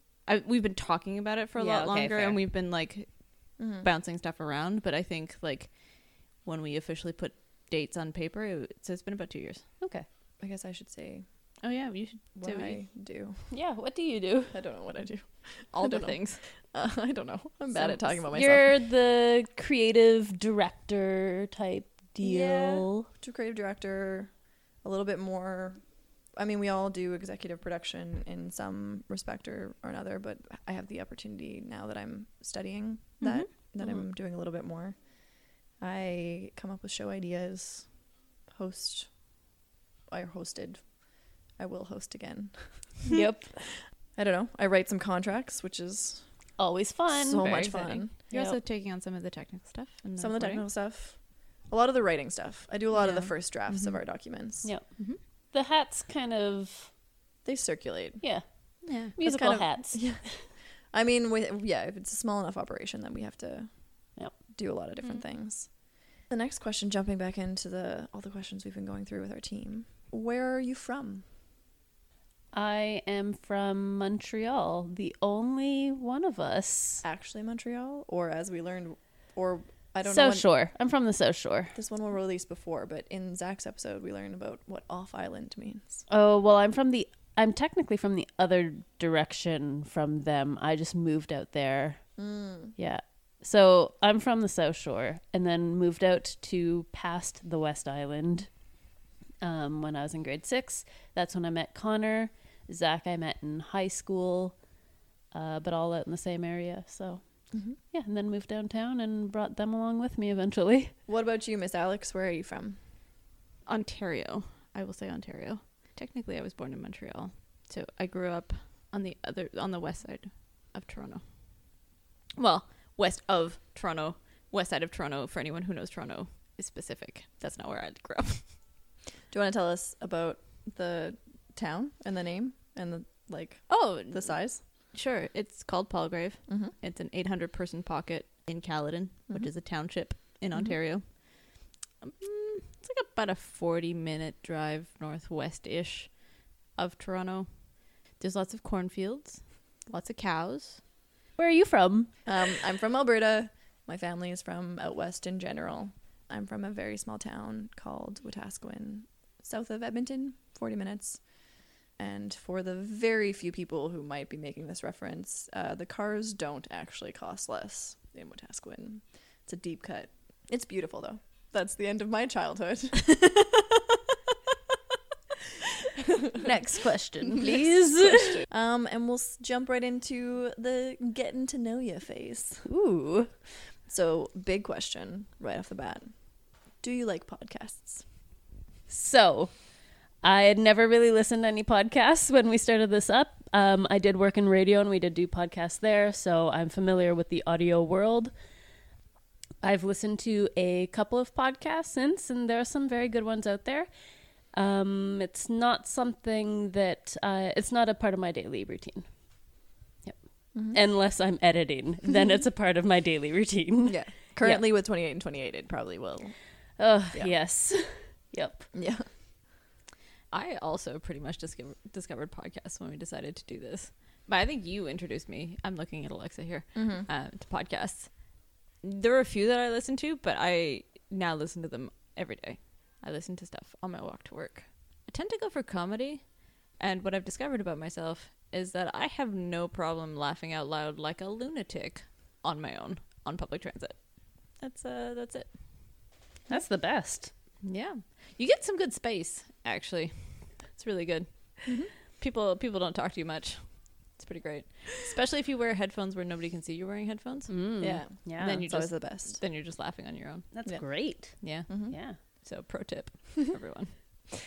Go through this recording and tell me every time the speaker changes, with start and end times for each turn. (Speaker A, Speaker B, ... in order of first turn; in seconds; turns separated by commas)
Speaker A: 0.3-9.6, Speaker B: 1.6-2.4, Speaker C: 3.6-3.9, Speaker B: 9.8-10.1, Speaker C: 10.4-11.2, Speaker A: 11.6-12.8, Speaker C: 12.3-13.4, Speaker B: 13.5-14.6, Speaker C: 14.5-18.7, Speaker A: 15.7-16.4, Speaker B: 17.8-23.1, Speaker C: 22.2-38.0, Speaker A: 33.2-33.5, Speaker C: 38.5-39.1, Speaker C: 40.1-41.0, Speaker C: 41.5-43.0, Speaker B: 43.1-43.7, Speaker C: 44.1-46.3, Speaker B: 46.6-47.6, Speaker C: 47.1-48.1, Speaker A: 47.4-50.6, Speaker B: 48.3-48.6, Speaker C: 50.2-54.7, Speaker A: 52.9-54.0, Speaker B: 55.5-56.9, Speaker C: 57.4-58.2, Speaker B: 58.2-60.2, Speaker A: 58.8-59.1, Speaker C: 59.2-71.2, Speaker B: 72.5-77.0, Speaker C: 77.0-80.5, Speaker B: 80.0-81.7, Speaker C: 81.7-86.0, Speaker B: 86.1-92.2, Speaker C: 92.2-92.7, Speaker B: 92.7-98.6, Speaker B: 99.4-104.6, Speaker B: 105.3-110.9, Speaker C: 107.5-107.8, Speaker C: 111.1-112.8, Speaker A: 113.7-121.8, Speaker A: 122.4-128.5, Speaker C: 129.3-134.6, Speaker A: 133.7-150.8, Speaker C: 136.5-136.7, Speaker B: 151.4-152.1, Speaker C: 152.2-161.3, Speaker C: 161.9-173.2, Speaker C: 176.0-176.5, Speaker B: 176.4-178.4, Speaker C: 177.3-182.7, Speaker B: 182.6-183.3, Speaker C: 183.8-186.1, Speaker C: 186.8-188.0, Speaker B: 188.9-189.5, Speaker B: 190.2-198.3, Speaker B: 199.6-203.9, Speaker B: 204.5-209.1, Speaker B: 210.0-214.6, Speaker C: 210.5-210.8, Speaker C: 212.1-212.4, Speaker C: 213.8-216.4, Speaker B: 216.8-218.7, Speaker C: 218.7-219.1, Speaker A: 220.3-244.0, Speaker C: 226.7-227.1, Speaker A: 244.5-245.5, Speaker B: 246.5-247.3, Speaker A: 247.6-260.5, Speaker C: 251.7-251.9, Speaker B: 257.5-258.6, Speaker C: 257.8-259.4, Speaker B: 260.5-262.2, Speaker A: 261.4-263.9, Speaker C: 261.7-261.9